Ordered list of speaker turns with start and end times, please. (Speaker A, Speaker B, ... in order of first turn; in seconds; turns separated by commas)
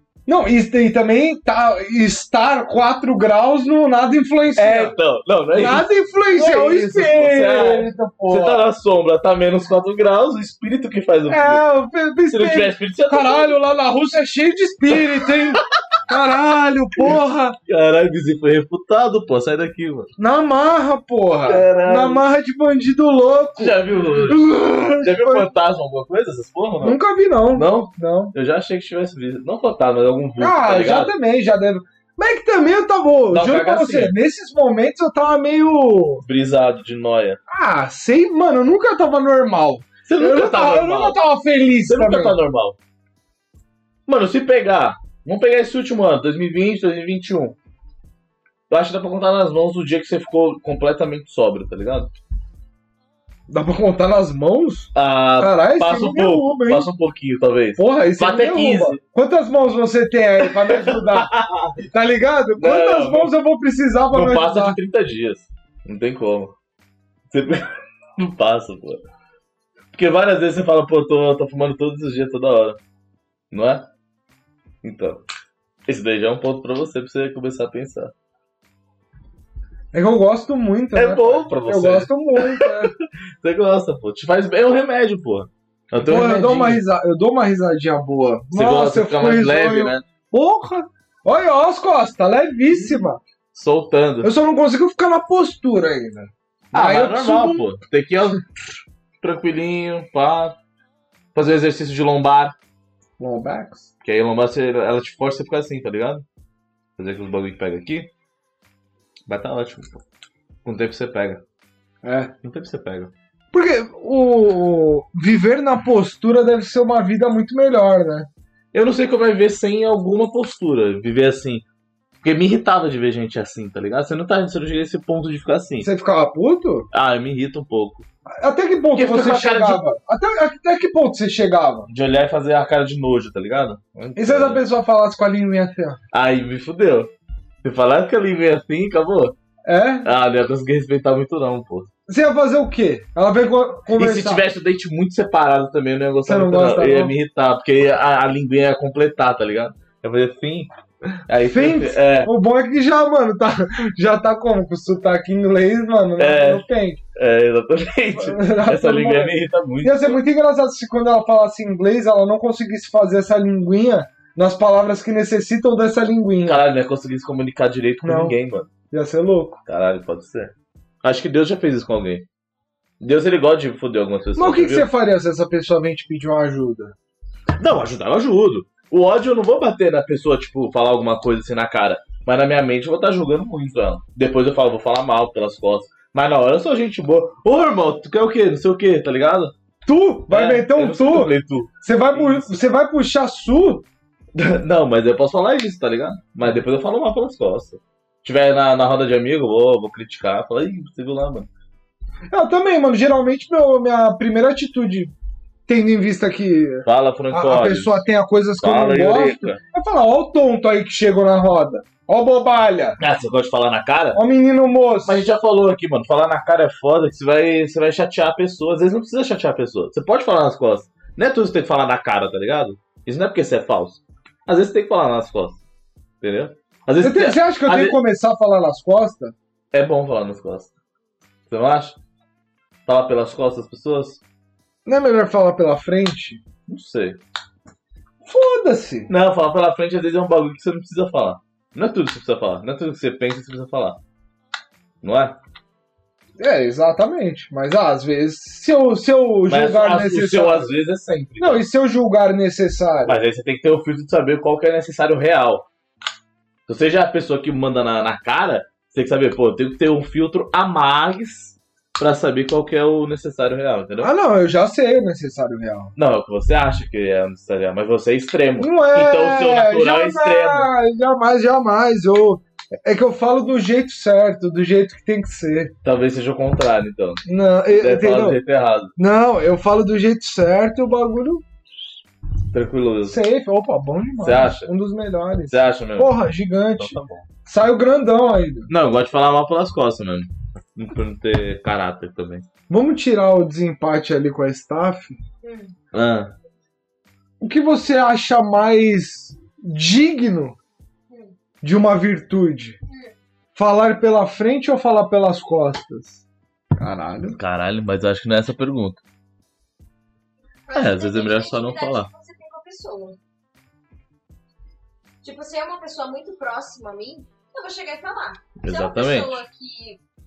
Speaker A: 0.2-4.9, Speaker B: 4.5-11.6, Speaker A: 5.5-8.6, Speaker A: 11.3-17.6, Speaker B: 12.3-13.6, Speaker B: 17.7-20.1, Speaker A: 20.2-25.5, Speaker B: 21.5-22.2, Speaker B: 23.6-27.0, Speaker A: 26.8-28.3, Speaker B: 27.5-31.1, Speaker A: 30.4-36.2, Speaker B: 33.3-34.1, Speaker B: 36.2-37.4, Speaker A: 37.5-42.4, Speaker B: 40.0-41.2, Speaker B: 41.9-42.8, Speaker B: 44.1-47.5, Speaker B: 48.7-52.1, Speaker A: 53.5-56.9, Speaker B: 54.9-59.0, Speaker A: 57.8-61.3, Speaker B: 60.4-61.8, Speaker A: 61.9-64.8, Speaker B: 62.6-63.3, Speaker B: 64.1-66.5, Speaker B: 67.3-69.0, Speaker B: 69.9-72.8, Speaker B: 73.5-73.9, Speaker B: 74.8-75.2, Speaker B: 75.9-78.1, Speaker A: 79.9-82.9, Speaker B: 80.9-82.9, Speaker B: 83.4-86.8, Speaker A: 86.0-93.2, Speaker B: 88.5-90.0, Speaker B: 93.5-94.3, Speaker A: 94.2-97.7, Speaker B: 96.7-98.4, Speaker B: 99.2-100.5, Speaker B: 101.3-102.5, Speaker A: 103.2-103.8, Speaker B: 104.0-106.2, Speaker B: 107.0-108.1, Speaker B: 109.3-110.0, Speaker B: 110.6-111.4, Speaker A: 112.0-112.3, Speaker B: 112.4-113.1, Speaker A: 113.5-118.3, Speaker B: 118.7-121.6, Speaker B: 122.2-125.9, Speaker A: 125.8-126.9, Speaker B: 126.9-128.1, Speaker A: 128.4-131.9, Speaker B: 128.9-129.8, Speaker B: 131.9-134.6, Speaker A: 134.2-136.0, Speaker B: 136.1-137.1, Speaker B: 137.6-139.3, Speaker A: 139.7-140.1, Speaker B: 140.0-141.9, Speaker A: 142.1-144.4, Speaker B: 143.9-150.7, Speaker A: 146.2-147.1, Speaker B: 151.3-152.3, Speaker A: 151.4-157.0, Speaker B: 156.2-160.2, Speaker A: 158.1-166.6, Speaker B: 166.4-168.7, Speaker A: 168.0-168.3, Speaker A: 168.9-169.6, Speaker B: 169.7-172.2, Speaker B: 173.0-174.9, Speaker A: 174.3-176.9, Speaker B: 177.6-189.5, Speaker A: 189.8-193.8, Speaker B: 190.3-192.6, Speaker B: 194.3-201.5, Speaker A: 202.3-205.1, Speaker A: 205.7-213.0, Speaker B: 206.8-208.0, Speaker B: 208.6-209.6, Speaker B: 213.0-214.2, Speaker A: 214.1-215.2, Speaker B: 215.0-225.6, Speaker B: 226.2-228.0, Speaker A: 227.0-229.3, Speaker B: 229.7-230.7, Speaker B: 231.5-232.0, Speaker B: 232.8-234.2, Speaker A: 234.8-236.4, Speaker B: 236.7-237.2, Speaker A: 238.2-239.1, Speaker B: 239.1-244.0, Speaker B: 245.0-245.4, Speaker A: 246.4-250.7, Speaker B: 249.5-251.6, Speaker A: 251.4-253.2, Speaker B: 253.1-255.7, Speaker B: 256.7-264.1, Speaker A: 264.0-265.9, Speaker B: 265.9-270.7, Speaker A: 268.6-275.7, Speaker B: 275.8-278.9, Speaker A: 277.2-278.4, Speaker A: 279.0-281.4, Speaker B: 282.5-283.2, Speaker A: 283.0-288.7, Speaker B: 284.2-284.7, Speaker B: 285.5-286.1, Speaker B: 286.8-287.3, Speaker B: 288.7-292.4, Speaker A: 292.7-295.2, Speaker C: 295.4-295.7, Speaker B: 295.9-296.3, Speaker A: 297.4-300.6, Speaker C: 301.1-301.3, Speaker A: 301.6-302.8, Speaker A: 303.6-306.2, Speaker A: 306.8-307.4, Speaker B: 307.3-309.0, Speaker C: 310.7-313.2, Speaker B: 310.7-312.1, Speaker C: 315.2-320.0, Speaker B: 318.6-319.4